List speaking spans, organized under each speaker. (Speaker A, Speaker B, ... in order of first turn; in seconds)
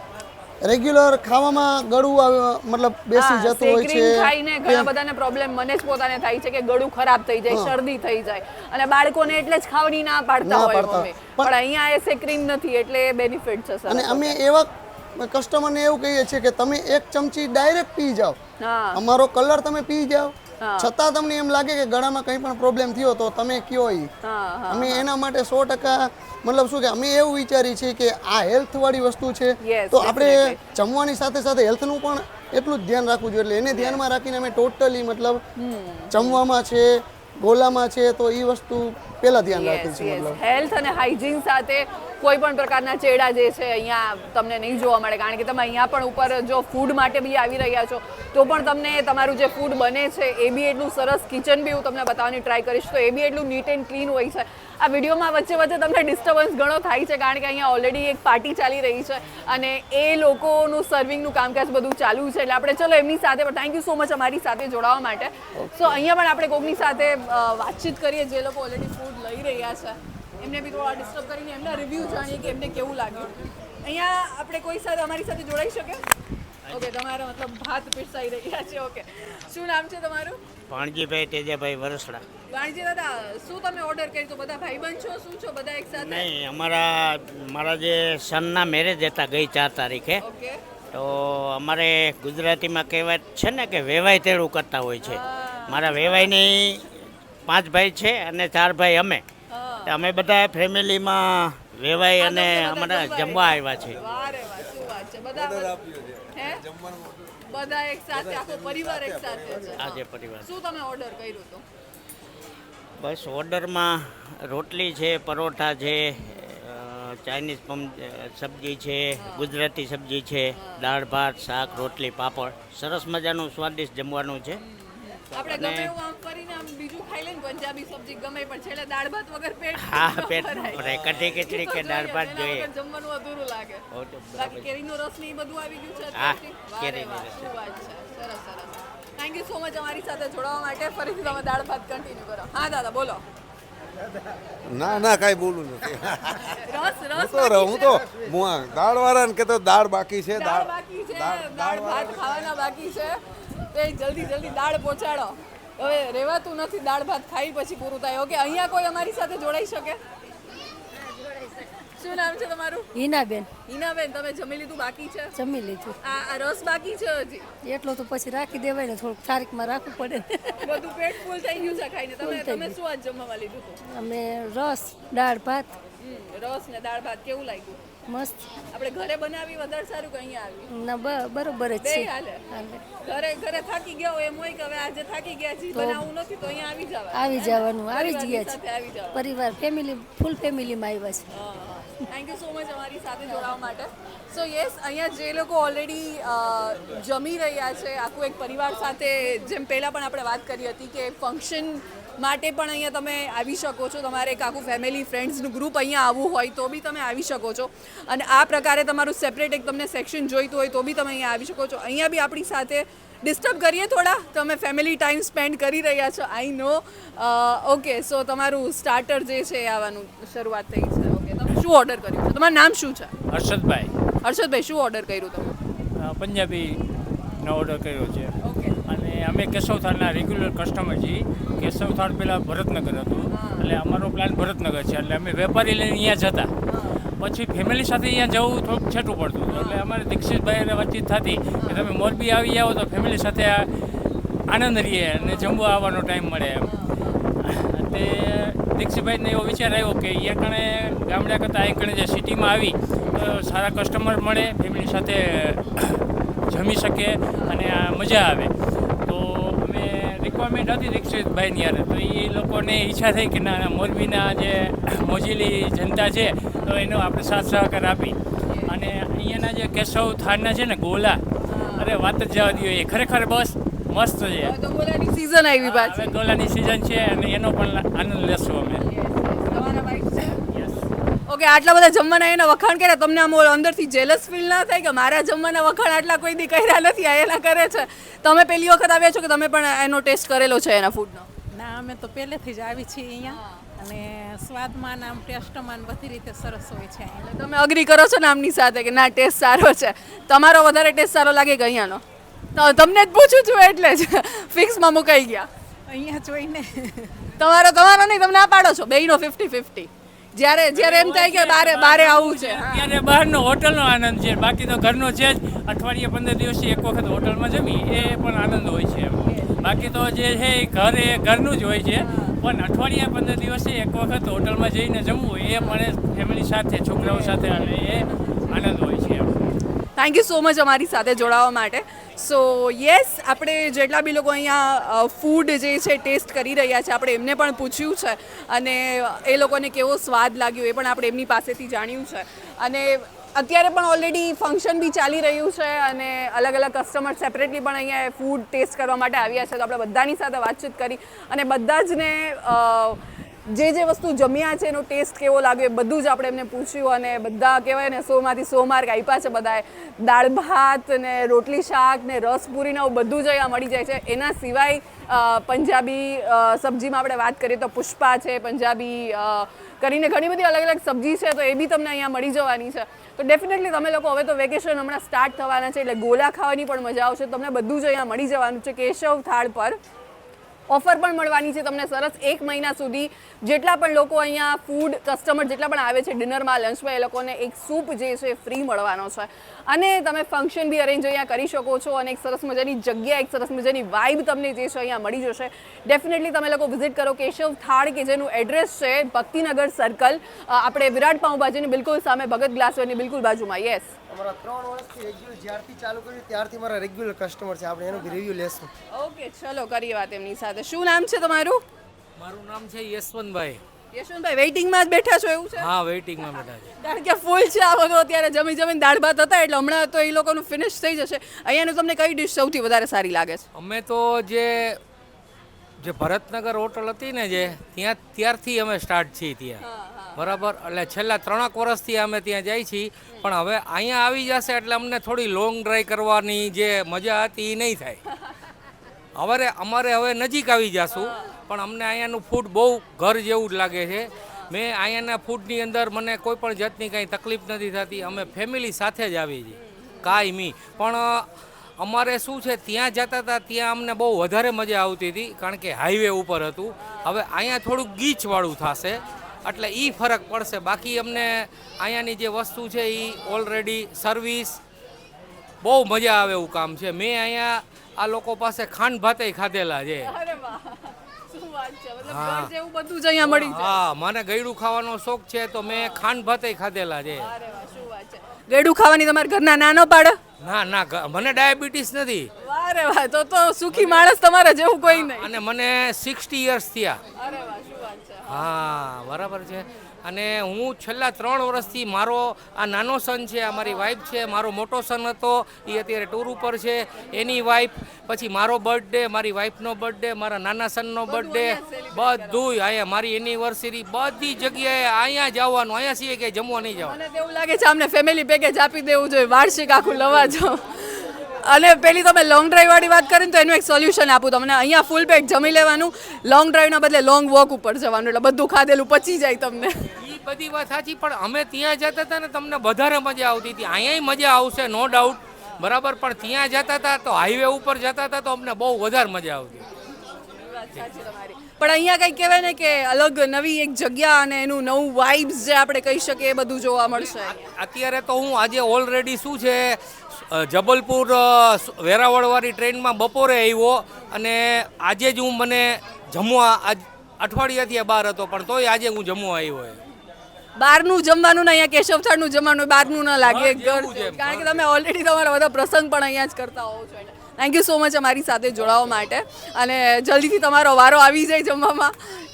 Speaker A: 0.6-4.9, 7.5-7.8, 10.4-11.5, 13.9-18.4, 18.9-24.1, 24.7-35.4, 36.1-40.4
Speaker B: 3.1-14.4, 18.6-19.0, 20.6-20.9, 24.2-25.1, 29.6-30.6, 33.7-34.0, 35.6-36.4, 39.5-73.3, 73.8-76.1, 76.7-80.4, 82.5-86.3, 90.2-90.6, 95.0-96.3, 99.5-99.9, 102.2-105.8, 106.3-106.7, 107.5-111.6, 119.2-119.5, 120.5-120.9, 124.6-143.2, 146.6-148.0, 150.3-153.2, 153.7-160.0, 162.0-162.9, 163.7-165.3, 166.0-167.5, 170.6-173.8, 176.0-177.8, 178.7-180.7, 181.8-182.5, 183.0-189.2, 191.3-223.1, 224.2-225.5, 228.4-228.8, 233.3-233.7, 236.7-237.1, 239.5-239.8, 241.6-241.9, 245.2-245.6, 246.6-247.2, 257.3-257.7, 268.4-268.8, 271.4-272.0, 274.4-276.2, 278.7-280.4, 281.3-291.3, 293.3-293.6, 297.3-302.0, 302.6-305.5, 307.4-312.9, 319.3-319.9, 322.0-322.4, 327.0-327.7, 328.3-328.5, 330.0-379.8, 380.7-403.9, 408.9-411.6, 413.9-415.7, 416.3-423.5, 429.6-430.2, 440.9-441.3, 449.5-450.2, 456.8-457.1, 470.0-473.8, 477.2-480.2, 482.4-485.3, 487.2-488.4, 501.1-502.5, 506.9-519.9, 530.0-537.4, 550.6-562.0
Speaker C: 80.7-82.2, 85.9-90.2, 90.9-96.8, 97.5-99.2, 99.9-104.0, 109.8-110.5, 113.0-124.6, 125.4-125.9, 129.8-132.7, 133.9-134.7, 136.2-137.5
Speaker D: 103.9-104.2, 105.4-107.2, 108.1-109.6, 144.7-146.6, 147.1-152.4
Speaker E: 130.9-131.3, 412.2-413.6, 415.6-416.7, 423.6-424.8, 425.8-429.6, 430.2-438.0, 439.2-451.3, 451.8-464.6, 465.6-470.1, 472.1-472.5, 473.2-477.3, 480.4-482.3, 483.7-484.1, 484.9-487.0, 488.3-507.0, 520.0-529.7, 536.9-549.8, 553.2-554.6
Speaker F: 148.0-148.3, 404.1-408.7
Speaker G: 161.2-161.5, 162.9-163.5, 165.3-165.9, 167.6-170.4, 172.2-172.7, 173.8-175.8, 178.1-178.4, 180.7-182.8, 185.7-186.0, 187.1-188.5, 189.1-191.3
Speaker H: 223.3-223.9, 226.0-226.8, 227.4-228.3, 228.8-236.5, 237.2-243.7, 244.5-246.7, 247.4-258.5, 259.0-271.2, 271.8-274.6, 275.6-278.9, 279.5-279.8, 280.4-280.9, 310.7-329.5
Speaker I: 291.5-297.3, 305.9-307.2